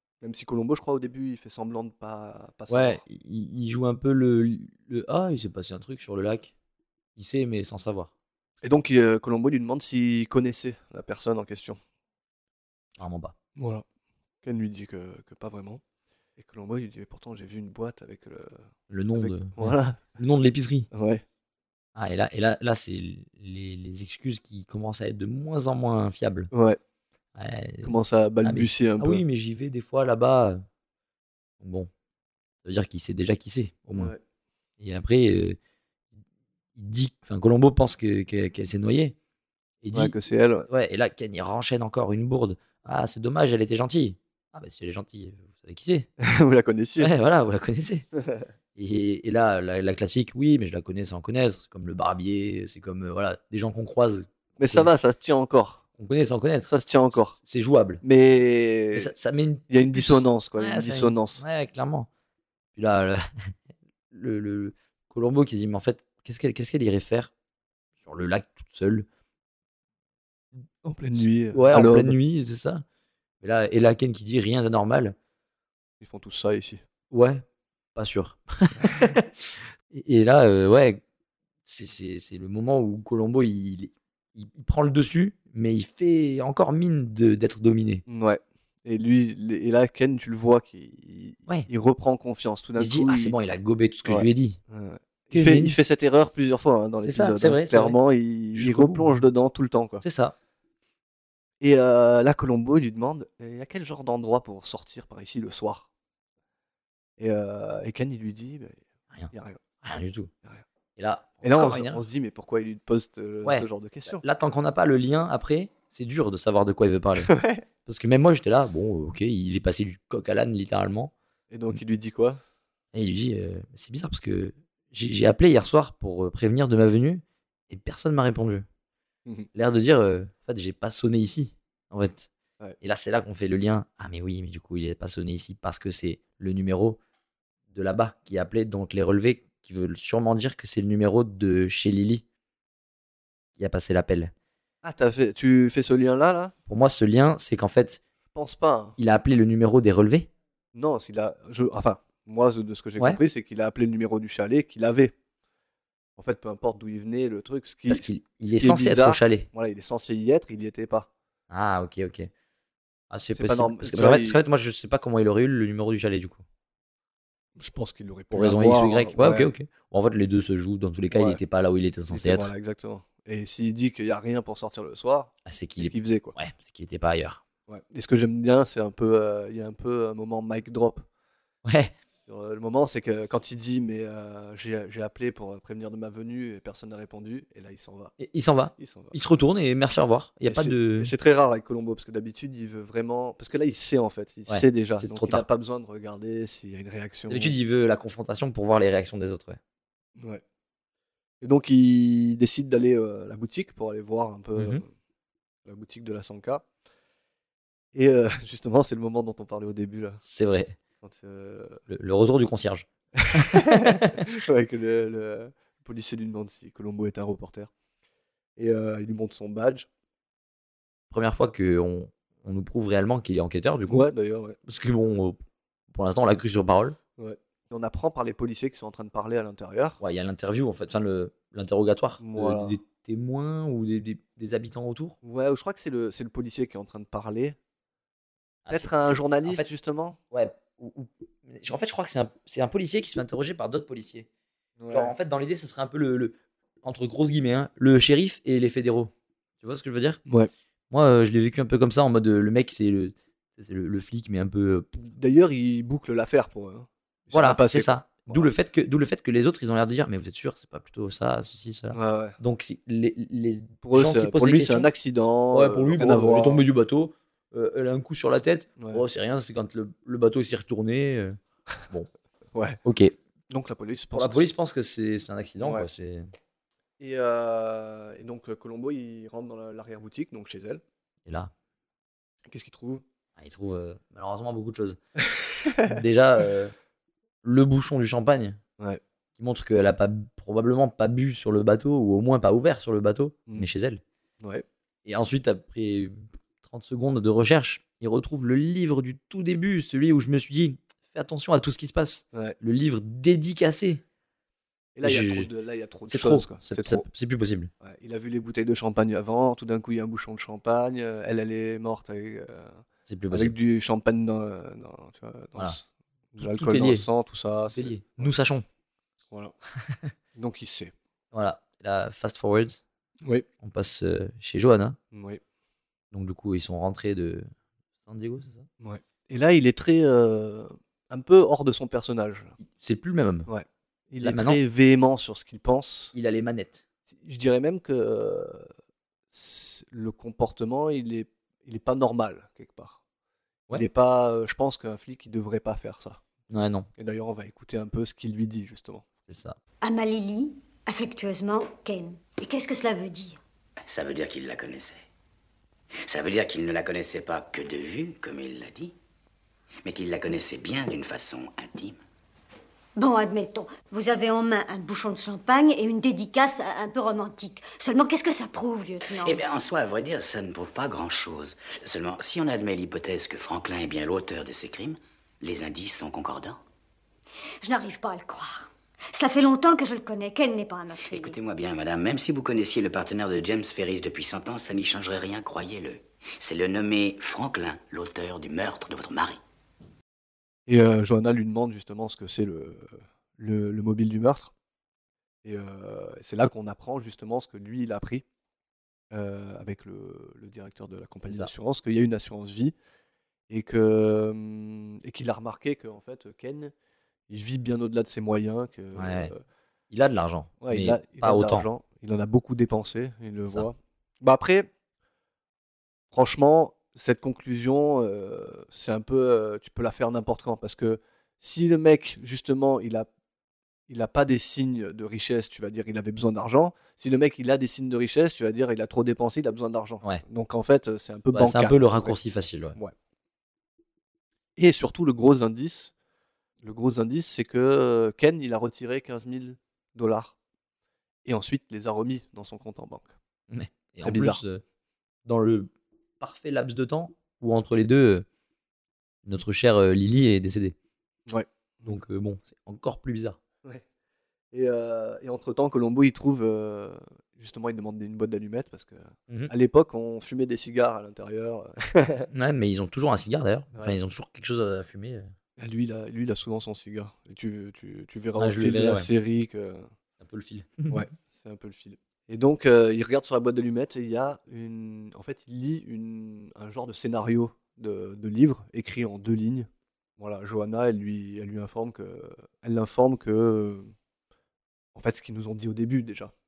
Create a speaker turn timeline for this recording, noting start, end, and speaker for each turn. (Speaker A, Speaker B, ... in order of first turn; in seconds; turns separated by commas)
Speaker A: 0.2-3.0, Speaker B: 2.7-6.5, Speaker B: 7.2-8.1, Speaker A: 8.6-11.8, Speaker B: 13.0-13.3, Speaker A: 13.6-13.8, Speaker A: 14.4-15.8, Speaker A: 16.4-18.6, Speaker B: 18.9-20.9, Speaker A: 19.2-20.0, Speaker A: 20.9-21.2, Speaker B: 21.9-26.5, Speaker A: 26.5-26.8, Speaker B: 27.4-30.6, Speaker A: 27.8-29.2, Speaker B: 31.6-31.9, Speaker B: 32.6-34.1, Speaker A: 33.9-34.2, Speaker B: 34.8-35.6, Speaker B: 36.8-39.1, Speaker B: 39.8-40.1, Speaker A: 39.9-40.7, Speaker B: 40.7-46.1, Speaker A: 46.2-47.1, Speaker B: 47.0-48.1, Speaker A: 48.2-48.5, Speaker B: 48.8-54.9, Speaker A: 54.6-55.8, Speaker B: 56.0-58.0, Speaker A: 56.7-57.4, Speaker A: 58.0-59.1, Speaker B: 58.9-62.1, Speaker A: 59.7-61.4, Speaker B: 62.7-63.5, Speaker B: 64.1-67.3, Speaker B: 68.0-69.1, Speaker A: 70.8-72.2, Speaker B: 71.5-72.8, Speaker B: 73.4-75.2, Speaker A: 76.0-76.8, Speaker B: 77.1-77.4, Speaker B: 78.0-81.0, Speaker B: 81.7-88.0, Speaker A: 88.1-93.3, Speaker B: 92.8-94.6, Speaker A: 94.1-100.0, Speaker B: 95.3-95.8, Speaker B: 97.0-98.0, Speaker B: 98.5-99.2, Speaker B: 100.0-100.3, Speaker A: 101.6-105.9, Speaker A: 107.2-108.8, Speaker A: 109.3-109.6, Speaker B: 109.8-110.3, Speaker B: 111.0-112.0, Speaker A: 111.4-114.2, Speaker B: 113.5-121.1, Speaker A: 117.2-117.6, Speaker A: 121.5-122.4, Speaker B: 122.9-128.7, Speaker B: 129.5-132.3, Speaker B: 132.8-137.0, Speaker B: 137.7-142.2, Speaker B: 143.6-144.3, Speaker A: 144.8-146.5, Speaker B: 146.7-148.0, Speaker A: 148.3-149.0, Speaker B: 149.0-150.3, Speaker A: 150.7-155.1, Speaker A: 156.2-161.1, Speaker B: 157.9-159.5, Speaker B: 161.5-162.3, Speaker B: 163.1-166.4, Speaker A: 163.3-164.4, Speaker A: 167.6-169.5, Speaker B: 168.3-172.5, Speaker A: 171.1-171.4, Speaker A: 172.1-176.4, Speaker B: 175.4-177.4, Speaker A: 177.7-181.1, Speaker B: 181.7-181.9, Speaker A: 182.3-188.2, Speaker B: 188.2-191.1, Speaker A: 188.8-189.2, Speaker A: 190.4-197.6, Speaker B: 194.5-195.4, Speaker B: 197.3-199.6, Speaker A: 200.2-200.4, Speaker A: 201.4-204.9, Speaker B: 204.6-204.8, Speaker A: 205.7-206.7, Speaker A: 207.9-210.2, Speaker B: 210.2-210.8, Speaker A: 211.0-211.8, Speaker B: 211.9-214.2, Speaker A: 213.2-217.7, Speaker A: 218.6-219.9, Speaker B: 221.1-224.1, Speaker A: 223.9-224.6, Speaker B: 224.7-225.4, Speaker B: 225.9-227.0, Speaker A: 227.2-230.0, Speaker B: 230.0-235.2, Speaker A: 232.2-232.8, Speaker A: 235.2-237.6, Speaker B: 238.7-239.7, Speaker A: 238.7-240.2, Speaker B: 240.3-244.3, Speaker A: 244.8-245.1, Speaker B: 244.9-250.2, Speaker B: 250.9-254.9, Speaker A: 254.9-258.5, Speaker B: 257.3-264.9, Speaker A: 261.9-262.4, Speaker A: 263.8-266.6, Speaker B: 265.5-271.4, Speaker A: 272.5-272.8, Speaker B: 272.9-273.1, Speaker A: 273.5-274.5, Speaker B: 274.1-276.3, Speaker A: 275.6-275.9, Speaker A: 277.0-280.8, Speaker B: 281.3-281.5, Speaker A: 282.5-283.0, Speaker B: 283.4-285.0, Speaker A: 285.6-286.0, Speaker B: 285.8-286.7, Speaker B: 287.4-288.6, Speaker B: 289.4-294.0, Speaker B: 295.1-304.0, Speaker A: 304.9-307.1, Speaker B: 305.0-305.5, Speaker B: 306.1-307.7, Speaker A: 307.8-318.3, Speaker B: 313.1-313.6, Speaker B: 316.4-317.1, Speaker B: 317.7-318.6, Speaker A: 320.4-320.9, Speaker B: 321.3-322.8, Speaker B: 323.6-325.0, Speaker A: 325.1-325.4, Speaker B: 326.1-327.5, Speaker B: 328.1-328.6, Speaker A: 328.8-332.6, Speaker B: 332.6-333.5, Speaker A: 333.5-336.1, Speaker B: 334.2-334.6, Speaker B: 336.1-336.8, Speaker A: 337.1-338.7, Speaker A: 339.3-343.0, Speaker A: 343.7-346.2, Speaker B: 346.5-346.9, Speaker A: 347.0-349.1, Speaker B: 349.3-349.6, Speaker C: 349.8-353.4, Speaker D: 353.9-355.0, Speaker D: 356.1-358.9, Speaker D: 359.8-362.0, Speaker C: 362.9-369.4, Speaker D: 369.1-376.6, Speaker C: 377.6-381.4, Speaker D: 381.1-389.4, Speaker A: 390.7-394.5, Speaker A: 395.4-398.2, Speaker A: 399.1-402.7, Speaker A: 403.5-406.7, Speaker A: 407.3-409.4, Speaker B: 408.9-409.3, Speaker B: 409.9-411.7, Speaker A: 410.6-414.7, Speaker A: 416.1-423.1, Speaker A: 423.9-432.2, Speaker B: 431.3-432.8, Speaker A: 434.6-435.9, Speaker A: 436.6-440.4, Speaker A: 441.2-443.1, Speaker B: 443.5-444.6, Speaker A: 444.0-444.4, Speaker B: 445.2-448.3, Speaker B: 449.2-450.7, Speaker A: 451.3-452.0, Speaker B: 451.9-453.4, Speaker A: 454.5-462.3, Speaker B: 462.3-465.3, Speaker A: 465.6-469.9, Speaker B: 468.4-469.1, Speaker B: 470.2-471.0, Speaker A: 470.9-483.9, Speaker A: 484.9-486.3